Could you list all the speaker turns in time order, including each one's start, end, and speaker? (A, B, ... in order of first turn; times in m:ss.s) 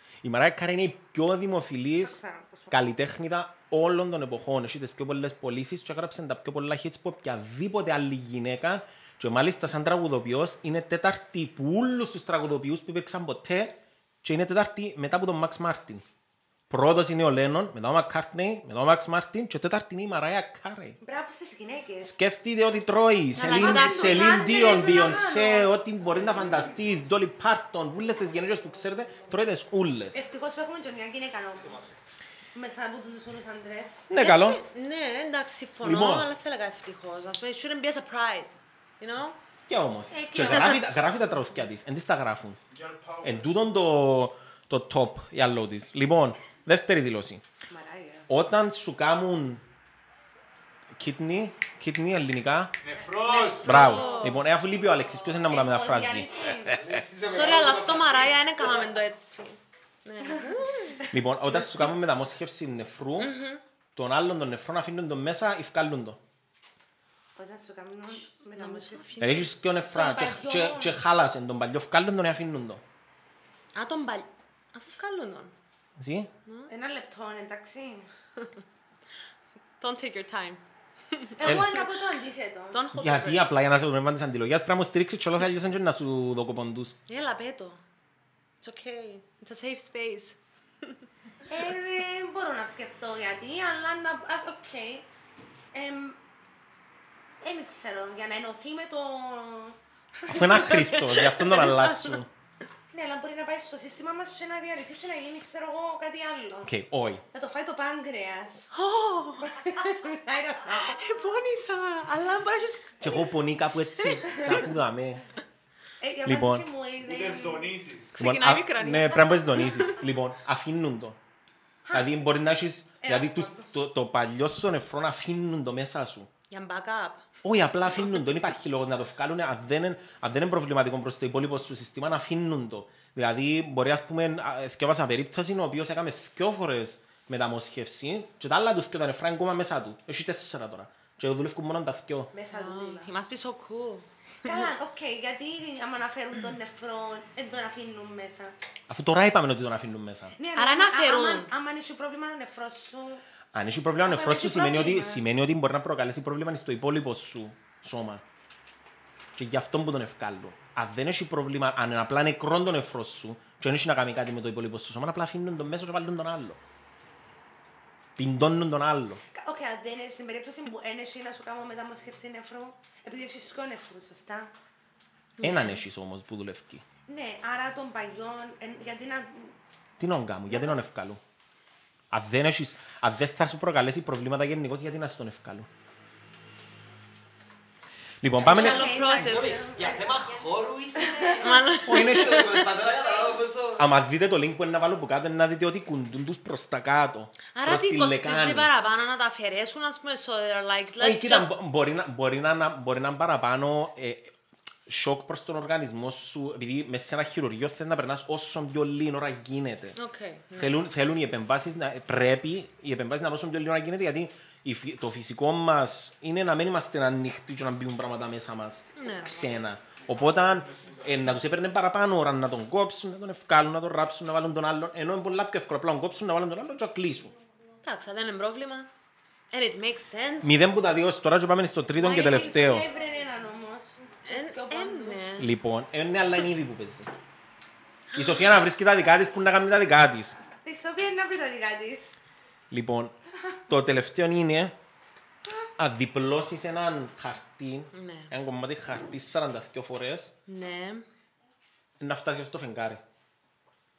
0:00.2-0:16.0 A
0:02.0-0:02.8 B
0:16.7-0:21.0 A
0:21.0-0:22.1 B
0:22.0-0:30.2 A
0:23.4-0:25.1 C
0:23.4-0:25.7 B
0:30.1-0:31.8 B
0:32.5-0:34.0 B
0:34.1-0:34.6 A
0:34.2-0:39.4 C
0:35.8-0:36.3 A
0:39.7-0:42.6 A
0:40.1-0:40.9 B
0:42.7-0:43.5 D
0:43.2-0:47.4 A
0:47.7-0:48.3 B
0:48.3-0:49.6 A
0:51.0-0:52.8 A
0:52.8-0:54.0 D
0:53.2-0:54.4 B
0:53.3-0:54.4 C
0:53.6-0:56.3 A
0:55.1-0:56.8 B
0:56.7-0:58.4 D
0:57.0-0:58.1 E
0:57.3-1:01.1 C
1:00.2-1:01.1 B
1:01.1-1:03.4 A
1:03.2-1:03.6 C
1:04.0-1:06.2 A
1:07.4-1:11.0 B
1:08.6-1:09.5 C
1:09.2-1:12.8 A
1:13.8-1:15.5 C
1:16.0-1:16.3 A
1:16.5-1:16.7 C
1:16.7-1:18.1 B
1:19.8-1:21.8 C
1:21.4-1:22.8 B
1:21.4-1:21.7 A
1:22.7-1:23.6 C
1:22.9-1:27.0 A
1:27.1-1:27.8 C
1:28.6-1:31.0 C
1:31.5-1:35.1 B
1:35.7-1:36.2 B
1:37.4-1:40.7 B
1:40.3-1:42.3 A
1:40.5-1:42.2 C
1:42.9-1:46.7 B
1:46.6-1:47.2 A
1:47.3-1:48.7 B
1:48.7-1:49.5 C
1:49.4-1:51.0 B
1:50.7-1:53.3 C
1:53.0-1:55.2 A
1:54.0-1:54.6 C
1:56.0-1:57.7 B
1:56.2-1:56.7 A
1:57.0-1:58.2 D
1:58.1-2:00.0 C
1:58.2-2:01.2 A
2:01.9-2:02.1 B
2:01.9-2:06.3 A
2:03.0-2:03.7 B
2:06.5-2:07.3 C
2:07.4-2:22.3 A
2:22.3-2:23.1 B
2:22.5-2:24.7 C
2:24.4-2:28.6 B
2:28.9-2:30.3 A
2:30.4-2:33.2 B
2:30.6-2:31.5 C
2:33.5-2:38.2 A
2:34.0-2:35.2 B
2:39.4-2:46.6 A
2:48.2-2:49.2 A
2:49.3-2:54.5 B
2:55.4-2:55.8 C
2:55.4-2:56.8 A
2:57.1-2:59.6 B
3:00.0-3:01.2 A
3:02.1-3:05.7 A
3:08.2-3:09.1 A
3:08.4-3:10.3 B
3:08.4-3:09.7 C
3:09.1-3:13.8 E
3:10.8-3:11.8 B
3:11.3-3:12.8 C
3:11.8-3:12.6 A
3:13.8-3:18.7 A
3:17.5-3:21.6 C
3:21.0-3:24.3 A
3:24.9-3:30.0 A
3:30.0-3:30.8 C
3:30.6-3:47.3 A
3:39.0-3:39.5 C
3:40.6-3:41.0 D
3:47.8-3:48.9 C
3:49.5-3:50.6 C
3:50.4-3:52.9 A
3:52.0-3:55.3 B
3:54.3-3:55.5 C
3:55.4-3:57.1 A
3:58.1-3:58.4 C
3:58.2-4:00.4 A
4:00.6-4:02.2 B
4:02.7-4:03.2 A
4:03.7-4:04.8 A
4:05.8-4:10.3 A
4:07.9-4:08.3 C
4:10.5-4:11.1 C
4:12.0-4:13.0 A